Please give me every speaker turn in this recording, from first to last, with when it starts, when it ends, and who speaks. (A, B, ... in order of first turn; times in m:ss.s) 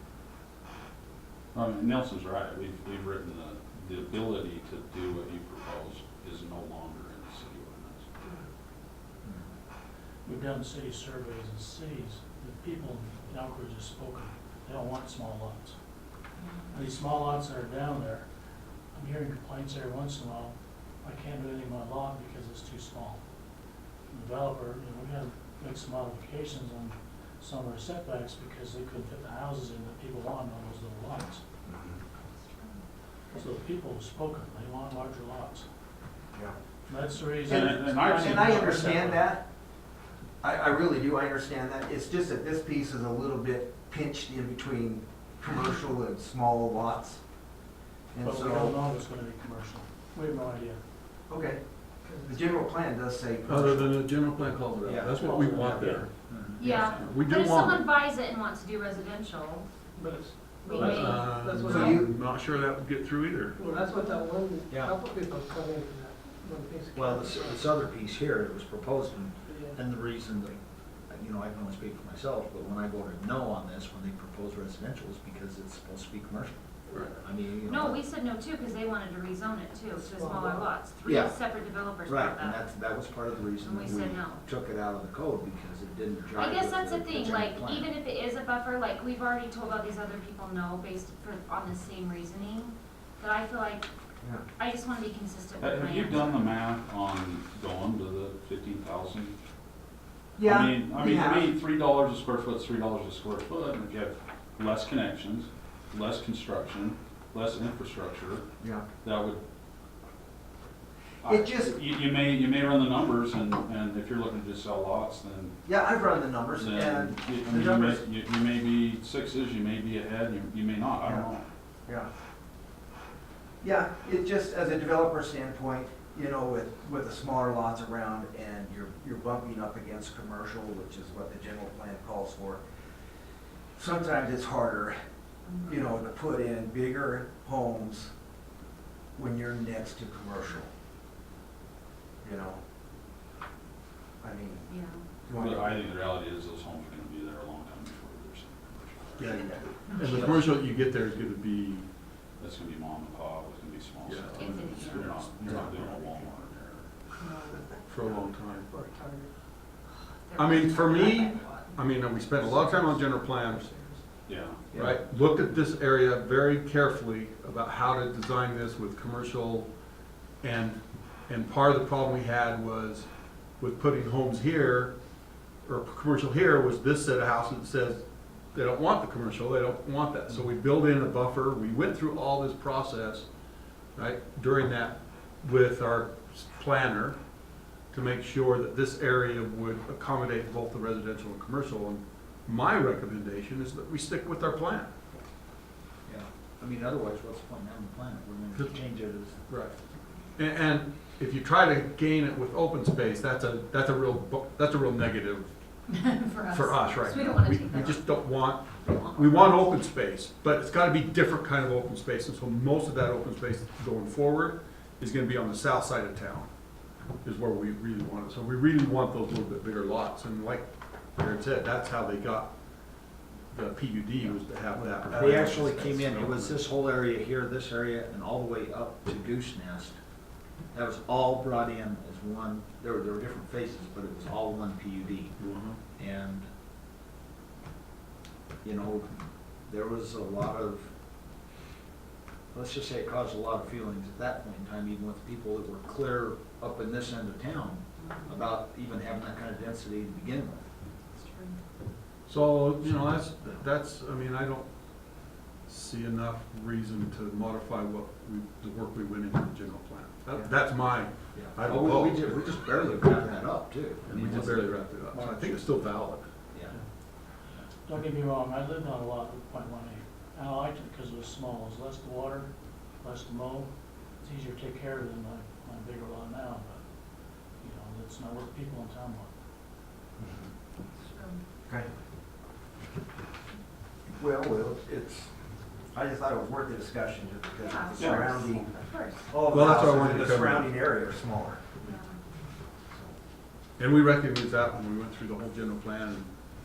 0:01.5-0:08.1 A
0:10.2-0:15.7 B
0:16.4-0:16.7 C
0:16.7-0:18.3 B
0:18.9-0:23.2 B
0:24.1-0:31.4 B
0:31.6-0:32.0 D
0:32.3-0:32.8 C
0:33.3-0:35.6 B
0:36.9-0:39.3 B
0:37.4-0:39.4 D
0:37.5-0:38.8 A
0:40.4-0:47.2 D
0:48.1-0:48.8 D
0:48.2-0:50.8 B
0:51.3-0:51.6 D
0:52.0-0:52.4 E
0:52.2-0:54.0 D
0:53.5-0:57.9 F
0:54.8-0:56.6 G
0:55.2-0:56.0 B
0:56.6-0:59.7 C
1:00.0-1:02.0 E
1:00.6-1:01.3 C
1:00.8-1:03.6 F
1:01.7-1:02.1 D
1:03.6-1:07.7 E
1:03.9-1:04.2 C
1:06.9-1:16.6 G
1:09.5-1:09.8 E
1:17.1-1:18.0 G
1:17.6-1:22.6 C
1:20.0-1:20.7 E
1:21.0-1:21.4 G
1:22.0-1:27.9 G
1:23.6-1:24.4 C
1:26.4-1:33.9 C
1:34.6-1:36.4 C
1:35.6-1:39.3 A
1:40.4-1:41.5 D
1:40.4-1:48.4 A
1:49.0-1:49.4 A
1:51.2-1:55.5 A
1:51.2-1:51.7 D
1:55.6-1:58.0 D
1:56.6-2:01.4 A
2:01.0-2:01.3 D
2:03.6-2:12.6 D
2:13.8-2:15.0 D
2:15.4-2:15.7 C
2:15.6-2:18.1 D
2:19.2-2:20.7 D
2:22.2-2:22.6 D
2:24.2-2:24.7 D
2:24.7-2:25.0 C
2:25.2-2:25.8 D
2:25.3-2:29.3 A
2:29.2-2:31.8 F
2:29.2-2:30.5 D
2:32.4-2:36.9 A
2:34.0-2:35.8 F
2:34.3-2:35.4 C
2:35.5-2:35.7 D
2:37.2-2:37.5 C
2:37.6-2:38.1 E
2:37.9-2:38.8 F
2:38.7-2:39.3 E
2:39.9-2:41.8 C
2:40.4-2:43.7 F
2:43.7-2:44.0 E
2:44.2-2:44.6 A
2:44.7-2:49.7 F
2:50.4-2:54.9 F
2:55.6-3:03.3 F
3:04.0-3:07.2 F
3:07.9-3:14.9 F
3:16.1-3:19.4 G
3:19.5-3:19.8 F
3:20.4-3:25.5 F
3:25.9-3:28.2 C
3:26.5-3:36.5 F
3:28.8-3:29.7 C
3:37.2-3:42.6 F
3:43.5-3:46.6 F
3:44.7-3:46.1 D
3:45.1-3:50.0 G
3:50.7-3:55.4 G
3:55.4-3:55.8 F
3:56.0-3:56.4 G
3:58.6-4:00.9 G
4:02.5-4:10.6 G
4:08.0-4:08.4 C
4:11.0-4:11.6 C
4:12.3-4:14.7 F
4:15.7-4:22.5 F
4:21.3-4:25.8 G
4:24.0-4:26.3 F
4:27.9-4:32.5 B
4:33.0-4:33.7 B
4:34.2-4:36.8 B
4:37.6-4:39.3 B
4:40.2-4:40.5 D
4:40.8-4:41.4 C
4:44.2-4:45.3 D
4:45.9-4:48.7 D
4:47.6-4:49.4 C
4:48.0-4:48.6 A
4:49.3-4:51.8 D
4:49.5-4:50.7 F
4:51.8-4:52.2 C
4:53.8-4:56.3 F